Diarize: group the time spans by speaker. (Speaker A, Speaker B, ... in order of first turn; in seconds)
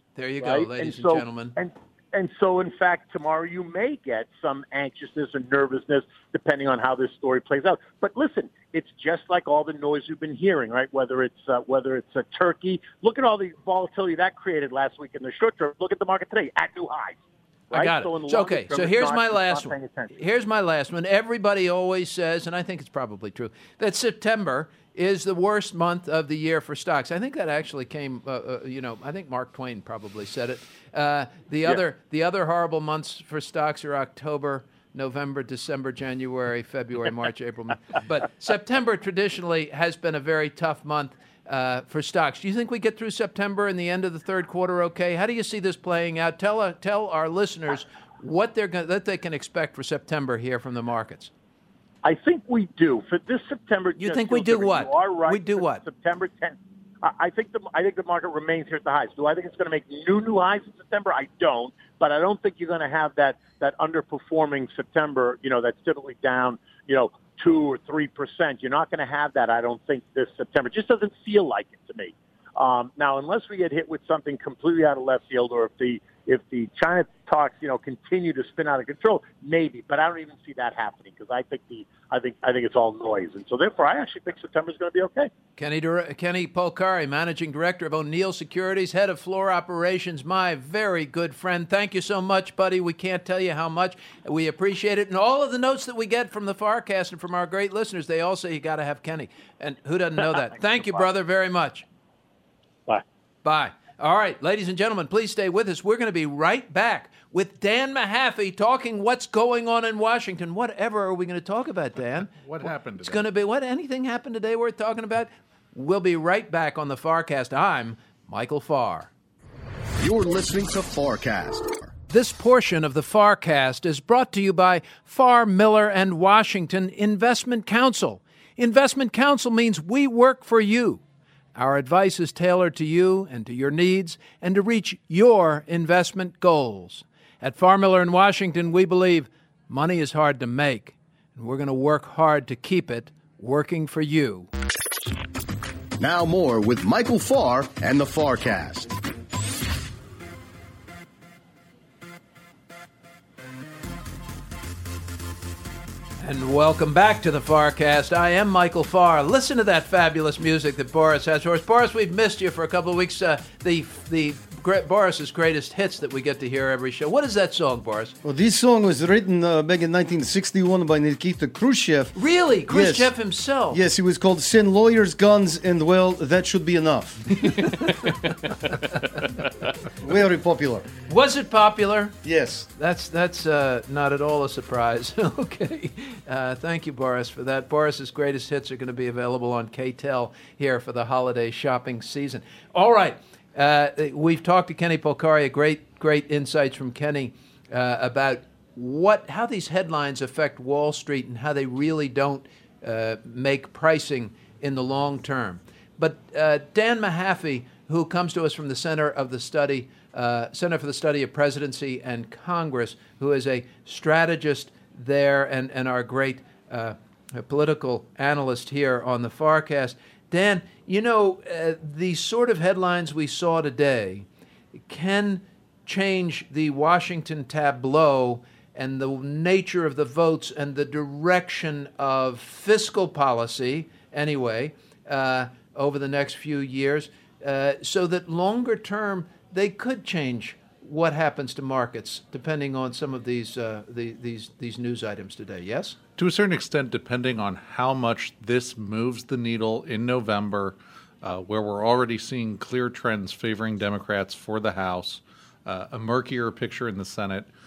Speaker A: 0.1-1.6, 17.7-51.3, 54.0-55.8, 85.6-101.8, 103.4-119.1, 122.1-131.0, 131.5-144.5, 156.2-168.1, 172.2-173.8, 177.5-178.1, 181.1-182.2, 182.7-224.2, 224.9-246.0
Speaker B: 0.4-17.2, 17.7-20.1, 52.0-85.3
Speaker C: 112.4-113.2, 246.2-257.5
Speaker D: 120.0-121.9, 146.0-148.9
Speaker E: 168.2-172.2, 172.7-173.1, 173.7-177.5, 180.0-180.9, 182.2-182.7